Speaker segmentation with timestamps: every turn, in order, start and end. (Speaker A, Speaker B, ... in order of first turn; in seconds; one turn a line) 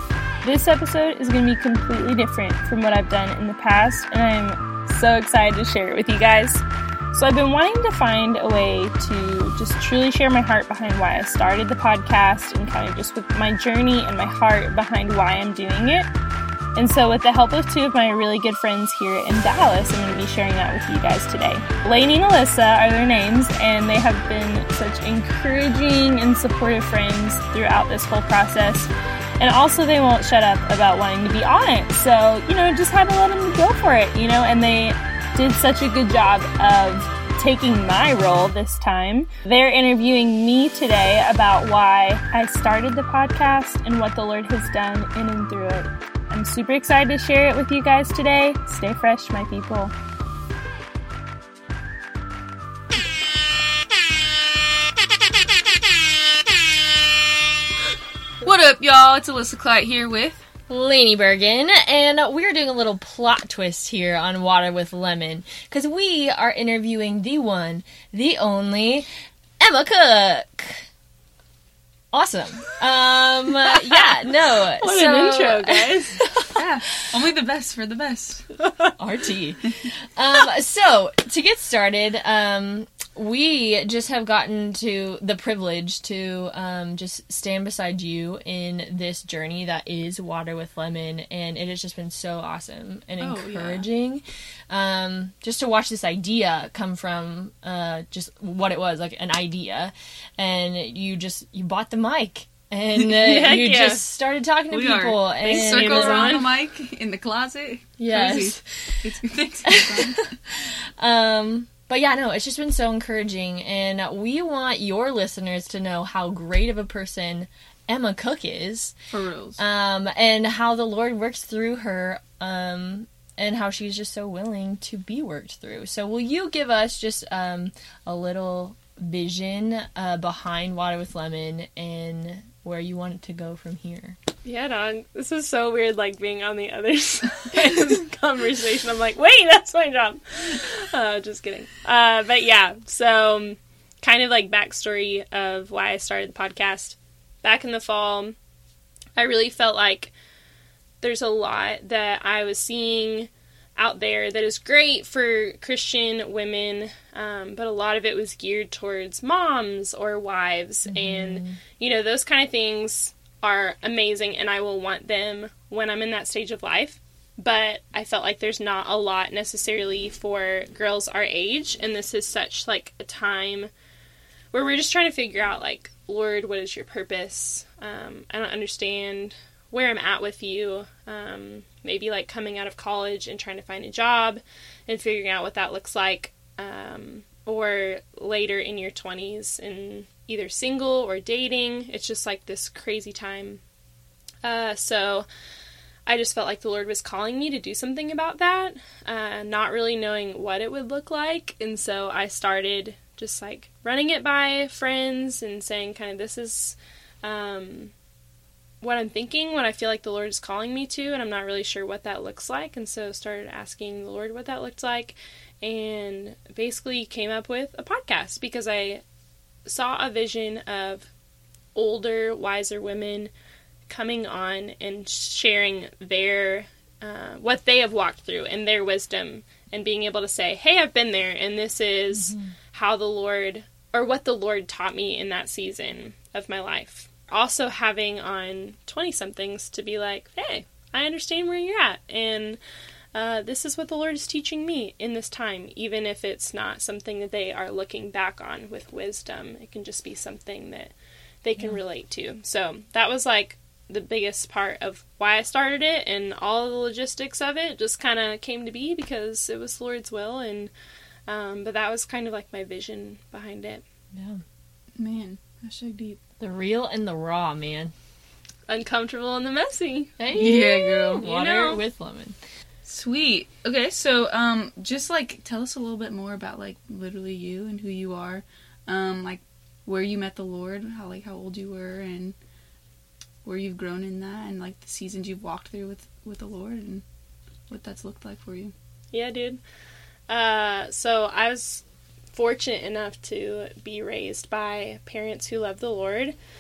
Speaker A: 0.4-16.1
Speaker A: 16.8-49.9
Speaker B: 58.4-60.5
Speaker C: 60.7-69.1
Speaker C: 69.6-70.9
Speaker C: 72.1-76.2
Speaker A: 74.8-76.5
Speaker B: 76.5-78.5
Speaker C: 79.0-106.4
Speaker B: 93.2-93.9
Speaker A: 103.2-104.0
Speaker B: 104.7-110.3
Speaker A: 105.4-106.5
Speaker C: 108.0-109.1
Speaker A: 108.1-108.4
Speaker C: 109.7-119.0
Speaker B: 119.1-119.6
Speaker C: 119.6-134.2
Speaker A: 134.4-148.4
Speaker A: 149.2-150.1
Speaker A: 151.0-173.7
Speaker C: 160.9-161.6
Speaker A: 174.5-193.6
Speaker A: 194.4-195.3
Speaker A: 196.1-207.9
Speaker A: 208.8-219.0
Speaker A: 219.7-221.1
Speaker A: 221.8-223.3
Speaker A: 223.9-242.6
Speaker A: 243.1-260.7
Speaker A: 261.3-263.8
Speaker C: 264.1-264.4
Speaker B: 265.0-266.2
Speaker C: 266.4-267.9
Speaker A: 268.7-270.2
Speaker C: 270.2-272.4
Speaker B: 270.3-271.2
Speaker A: 271.1-271.8
Speaker B: 272.9-282.4
Speaker B: 283.4-287.0
Speaker B: 287.7-288.7
Speaker A: 289.1-289.6
Speaker A: 290.3-296.4